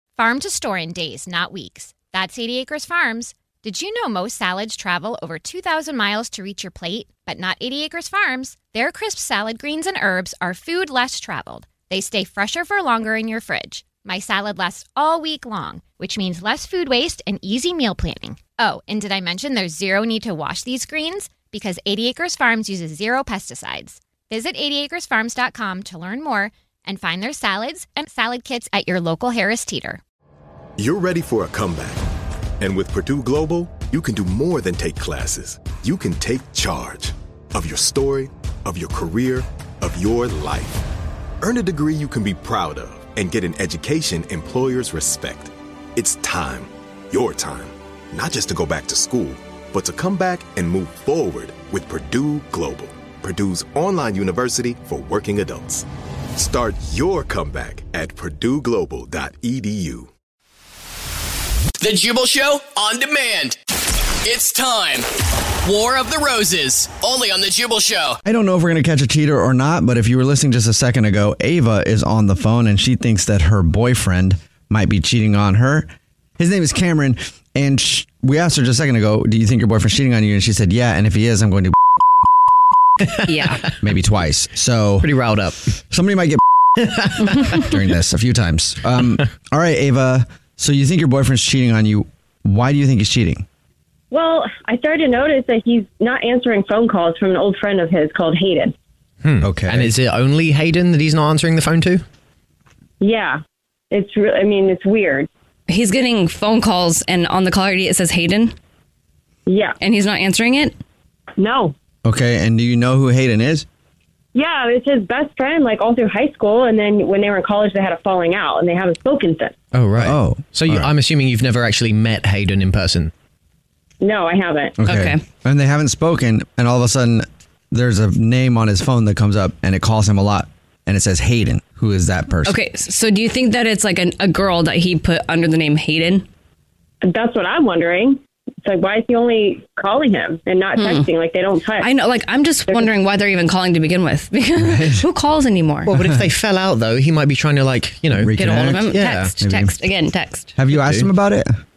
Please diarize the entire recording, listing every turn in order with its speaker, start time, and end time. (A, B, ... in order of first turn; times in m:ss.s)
0:00.2-0:30.0 A
0:30.8-0:32.0 B
0:32.6-0:40.9 B
0:41.4-1:00.1 B
1:01.8-1:03.6 C
1:04.2-1:05.1 C
1:05.6-1:08.2 C
1:08.2-1:21.8 D
1:23.0-1:23.8 E
1:23.3-1:23.6 F
1:23.7-1:25.2 D
1:25.0-1:25.7 E
1:25.9-1:26.4 D
1:27.4-1:33.4 D
1:34.1-1:38.7 G
1:39.2-1:42.0 E
1:39.4-1:39.9 D
1:43.0-1:43.4 G
1:43.9-1:45.3 G
1:45.7-1:48.6 F
1:49.5-1:49.8 G
1:49.8-1:50.8 F
1:51.4-1:51.7 G
1:52.0-1:53.7 D
1:54.3-1:59.6 G
1:59.7-2:03.1 E
2:00.0-2:00.9 D
2:04.0-2:04.8 G
2:04.8-2:12.6 D
2:04.8-2:05.2 F
2:12.4-2:16.3 F
2:17.0-2:21.9 G
2:20.8-2:21.1 F
2:21.8-2:26.0 F
2:24.6-2:25.0 D
2:25.9-2:26.3 D
2:26.0-2:29.4 E
2:28.2-2:29.8 D
2:28.4-2:30.6 F
2:30.6-2:31.5 D
2:30.7-2:31.1 E